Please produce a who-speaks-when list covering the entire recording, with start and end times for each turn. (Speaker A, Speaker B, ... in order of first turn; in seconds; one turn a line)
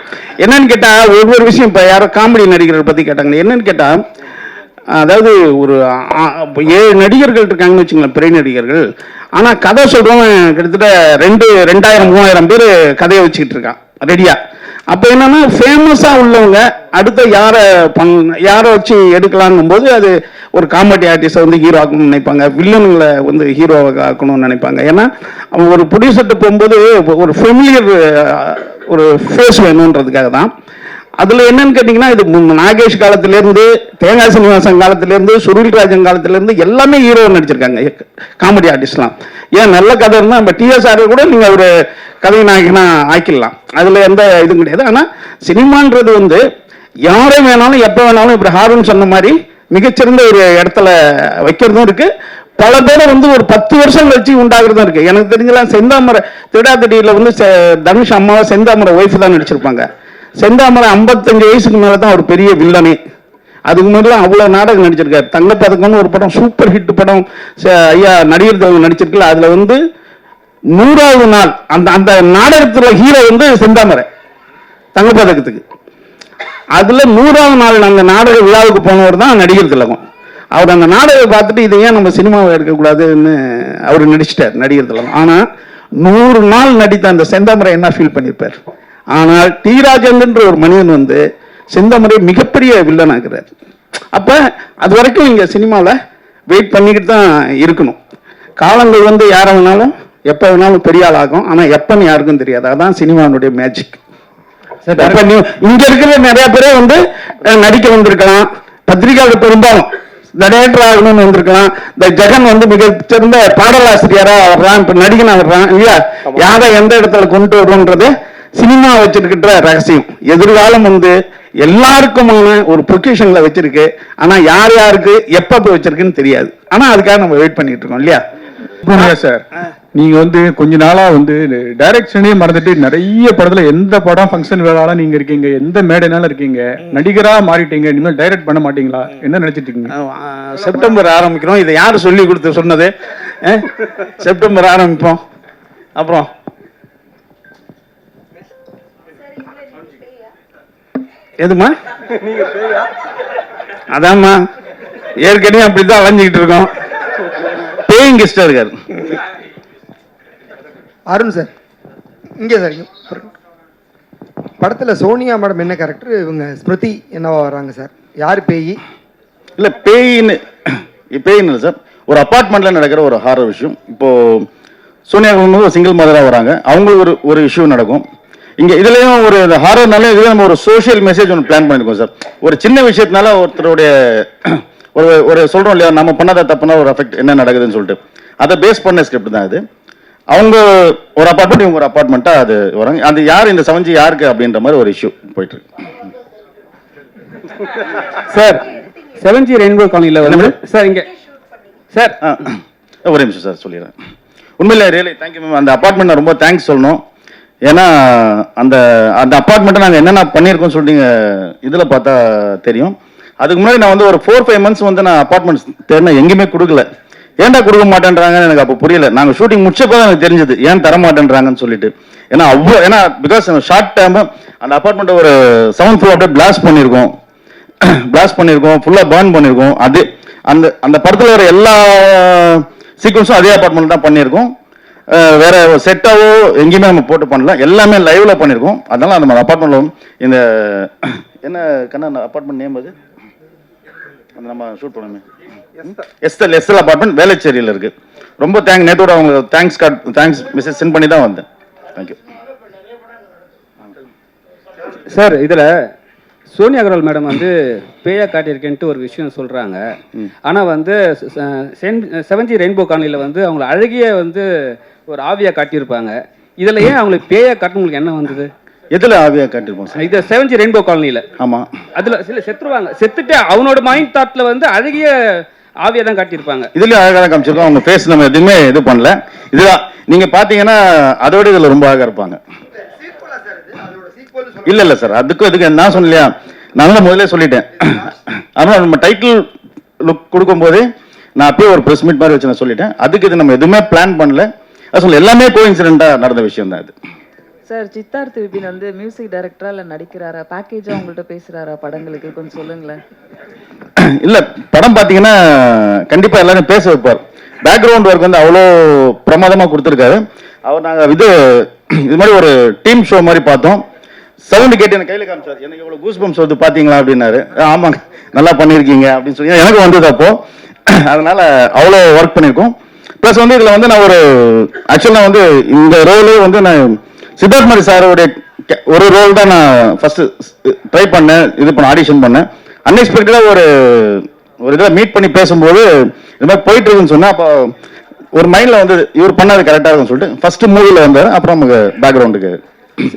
Speaker A: 0.4-4.0
Speaker A: 4.9-8.8
Speaker A: 9.4-14.4
Speaker A: 14.9-30.5
Speaker A: 31.2-41.7
Speaker A: 42.2-46.4
Speaker A: 47.1-59.9
Speaker A: 60.4-63.0
Speaker A: 63.7-69.8
Speaker A: 70.7-74.1
Speaker A: 75.0-75.6
Speaker A: 76.8-80.0
Speaker A: 80.5-85.4
Speaker A: 86.0-88.6
Speaker A: 89.1-91.2
Speaker A: 91.7-93.5
Speaker A: 94.1-96.0
Speaker A: 96.5-98.0
Speaker A: 98.6-104.0
Speaker B: 104.9-105.2
Speaker A: 105.0-128.2
Speaker C: 128.8-139.9
Speaker A: 139.9-145.2
Speaker A: 146.0-146.3
Speaker A: 151.4-151.7
Speaker A: 153.9-154.4
Speaker A: 155.2-156.7
Speaker D: 157.8-158.8
Speaker E: 161.1-161.5
Speaker E: 162.4-163.2
Speaker E: 164.6-168.8
Speaker D: 169.6-170.4
Speaker D: 171.1-174.5
Speaker D: 175.1-178.0
Speaker D: 178.6-189.6
Speaker D: 190.3-195.6
Speaker B: 198.3-201.1
Speaker D: 200.2-200.5
Speaker D: 202.2-203.9
Speaker D: 204.6-207.0
Speaker D: 207.7-216.9
Speaker D: 217.4-227.1
Speaker D: 227.8-234.5
Speaker D: 235.1-242.9
Speaker D: 244.4-245.2
Speaker D: 246.0-252.2
Speaker B: 255.1-255.7
Speaker B: 256.5-257.5
Speaker B: 258.0-259.8
Speaker B: 260.5-264.5
Speaker B: 265.1-268.5
Speaker D: 268.9-270.0
Speaker B: 270.0-271.2
Speaker D: 271.4-271.7
Speaker B: 272.0-275.2
Speaker B: 275.8-276.7
Speaker D: 276.8-282.4
Speaker D: 284.6-289.4
Speaker D: 290.0-290.9
Speaker D: 291.4-296.9
Speaker F: 297.7-303.0
Speaker D: 304.0-313.8
Speaker D: 314.5-320.4
Speaker D: 321.0-337.7
Speaker D: 338.4-342.6